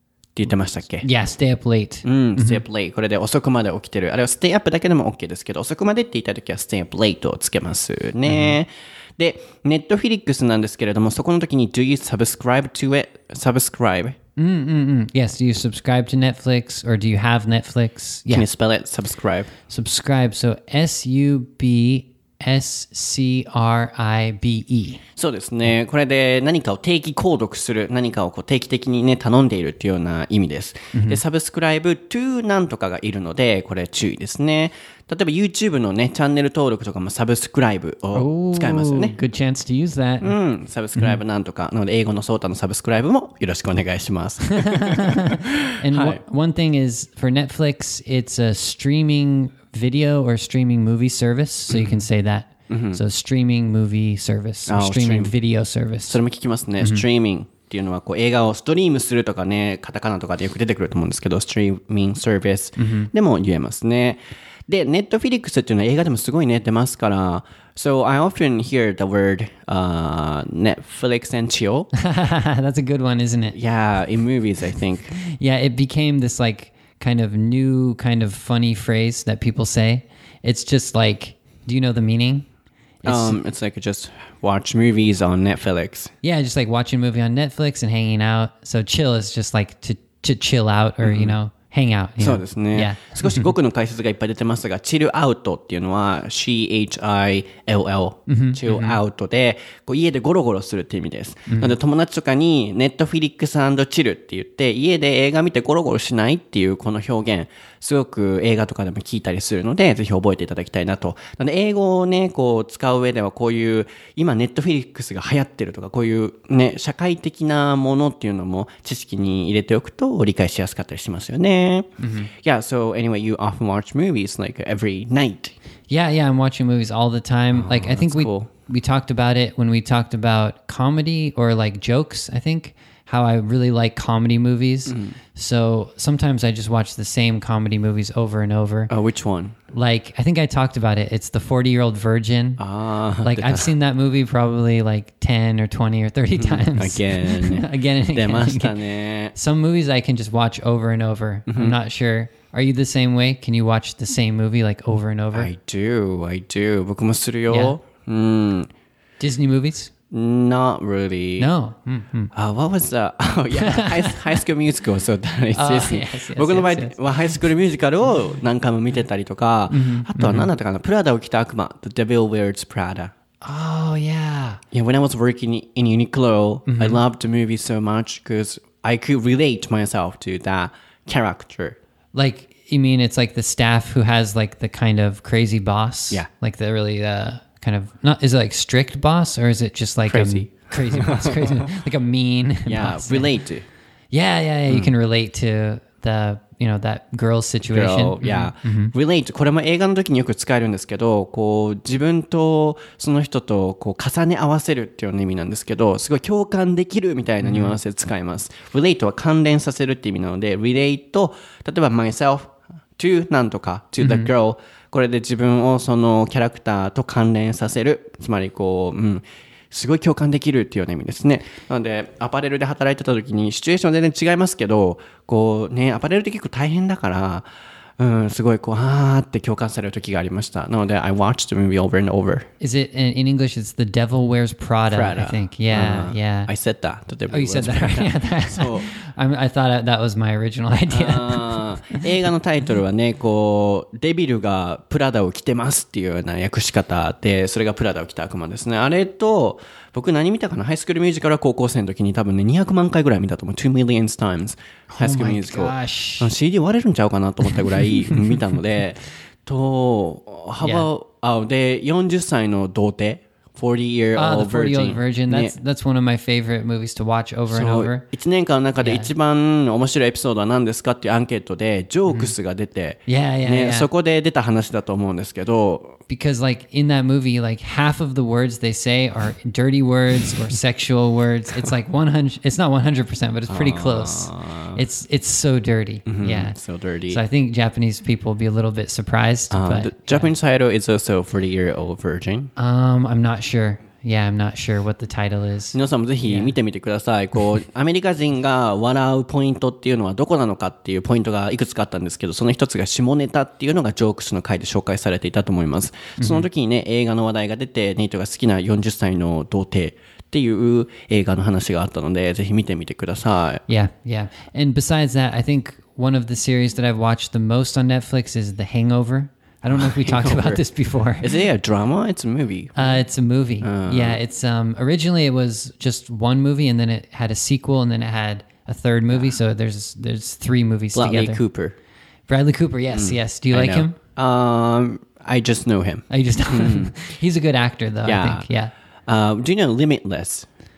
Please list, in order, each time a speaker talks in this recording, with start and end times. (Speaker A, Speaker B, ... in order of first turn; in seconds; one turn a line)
Speaker A: 0.4-1.1
Speaker B: 1.0-2.6
Speaker A: 2.0-14.2
Speaker B: 8.3-8.6
Speaker B: 14.4-18.5
Speaker A: 18.3-19.5
Speaker B: 19.7-25.0
Speaker A: 25.2-39.2
Speaker B: 30.9-31.2
Speaker B: 38.1-40.4
Speaker A: 40.2-46.2
Speaker B: 44.5-56.2
Speaker A: 51.7-52.1
Speaker A: 52.7-53.0
Speaker A: 54.7-55.4
Speaker A: 56.1-71.9
Speaker B: 62.8-63.1
Speaker B: 71.9-73.6
Speaker A: 73.5-75.2
Speaker B: 75.2-82.5
Speaker B: 83.0-83.4
Speaker A: 83.0-86.1
Speaker B: 86.2-93.5
Speaker A: 91.0-91.4
Speaker A: 92.2-125.5
Speaker B: 98.3-99.0
Speaker B: 101.5-101.8
Speaker B: 122.0-122.3
Speaker B: 125.9-138.9
Speaker A: 127.5-128.5
Speaker A: 134.9-135.2
Speaker A: 138.9-139.6
Speaker B: 139.7-142.6
Speaker A: 142.6-143.7
Speaker B: 143.2-148.8
Speaker A: 146.3-149.3
Speaker B: 149.3-155.5
Speaker A: 151.5-151.8
Speaker A: 155.3-158.7
Speaker B: 157.5-157.8
Speaker B: 159.2-159.9
Speaker A: 160.1-161.5
Speaker B: 161.4-162.3
Speaker A: 162.3-173.1
Speaker B: 163.6-164.4
Speaker B: 165.5-167.0
Speaker B: 169.7-170.5
Speaker B: 173.4-174.6
Speaker A: 174.7-181.8
Speaker B: 176.7-177.0
Speaker B: 182.1-193.4
Speaker A: 190.0-191.8
Speaker A: 192.7-193.7
Speaker B: 194.1-198.9
Speaker A: 197.6-227.5
Speaker B: 207.4-207.8
Speaker B: 214.0-214.3
Speaker A: 228.0-232.5
Speaker B: 232.6-236.5
Speaker A: 234.9-238.9
Speaker B: 237.3-242.1
Speaker A: 240.9-265.6
Speaker B: 254.9-256.3
Speaker B: 258.1-258.4
Speaker B: 260.6-260.9
Speaker B: 264.2-268.1
Speaker A: 267.5-276.0
Speaker B: 268.8-269.1
Speaker B: 272.1-272.3
Speaker B: 273.1-273.9
Speaker B: 276.1-286.6
Speaker A: 283.5-284.8
Speaker A: 286.1-287.2
Speaker B: 287.1-290.3
Speaker A: 289.5-292.5
Speaker B: 292.6-296.5
Speaker A: 295.7-313.6
Speaker B: 306.2-306.5
Speaker B: 313.7-321.3
Speaker A: 319.7-320.6
Speaker A: 321.2-323.0
Speaker B: 322.8-331.4
Speaker A: 323.6-324.2
Speaker A: 329.1-329.4
Speaker A: 330.9-331.8
Speaker B: 332.3-334.0
Speaker A: 332.9-336.9
Speaker B: 336.1-338.7
Speaker A: 338.1-338.4
Speaker A: 339.1-340.5